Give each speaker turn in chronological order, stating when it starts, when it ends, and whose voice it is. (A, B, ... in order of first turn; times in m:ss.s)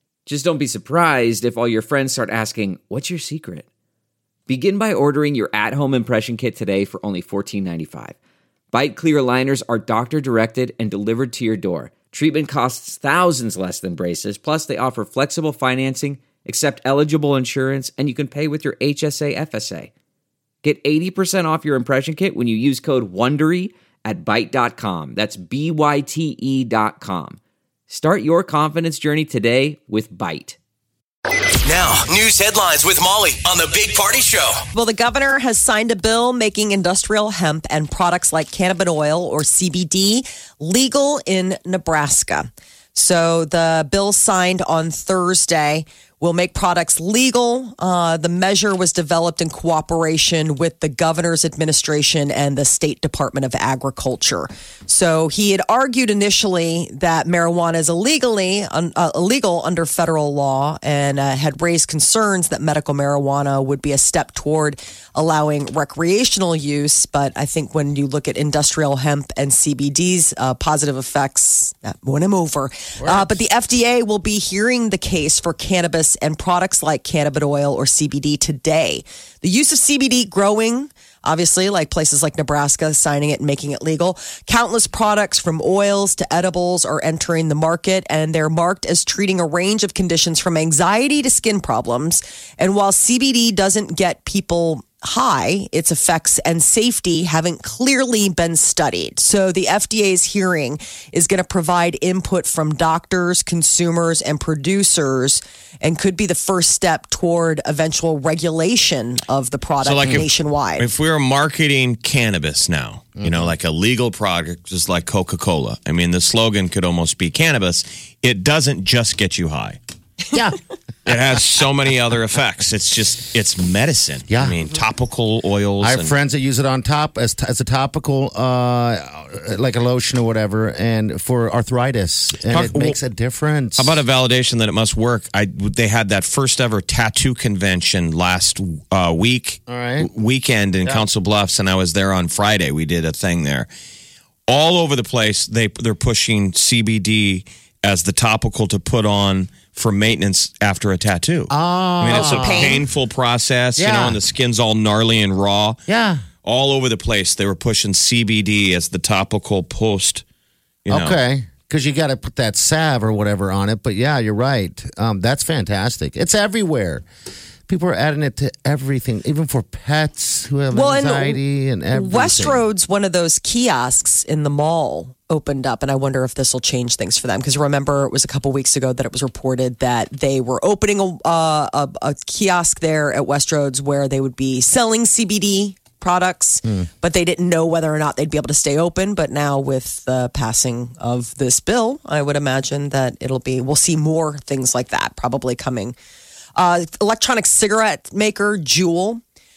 0:00.3-0:03.7 A
0:04.5-0:08.2 A
0:08.7-0:19.9 A
0:20.6-0:30.6 A
0:31.6-0:34.6 B
0:34.7-1:50.8 C
1:13.0-1:13.4 D
1:49.8-1:59.8 E
1:53.2-1:53.5 D
2:00.3-2:00.6 D
2:01.1-2:06.1 E
2:04.3-2:04.6 D
2:05.8-2:14.0 D
2:12.5-2:13.0 E
2:13.8-2:23.7 E
2:19.7-2:20.1 D
2:24.5-2:35.8 E
2:31.5-2:32.8 D
2:32.1-2:32.8 C
2:33.8-2:34.2 D
2:35.9-2:36.2 D
2:36.4-2:40.2 E
2:40.8-2:41.2 E
2:40.9-2:47.0 D
2:47.7-2:52.6 D
2:50.7-2:51.4 C
2:51.9-3:16.0 C
3:16.6-3:19.2 C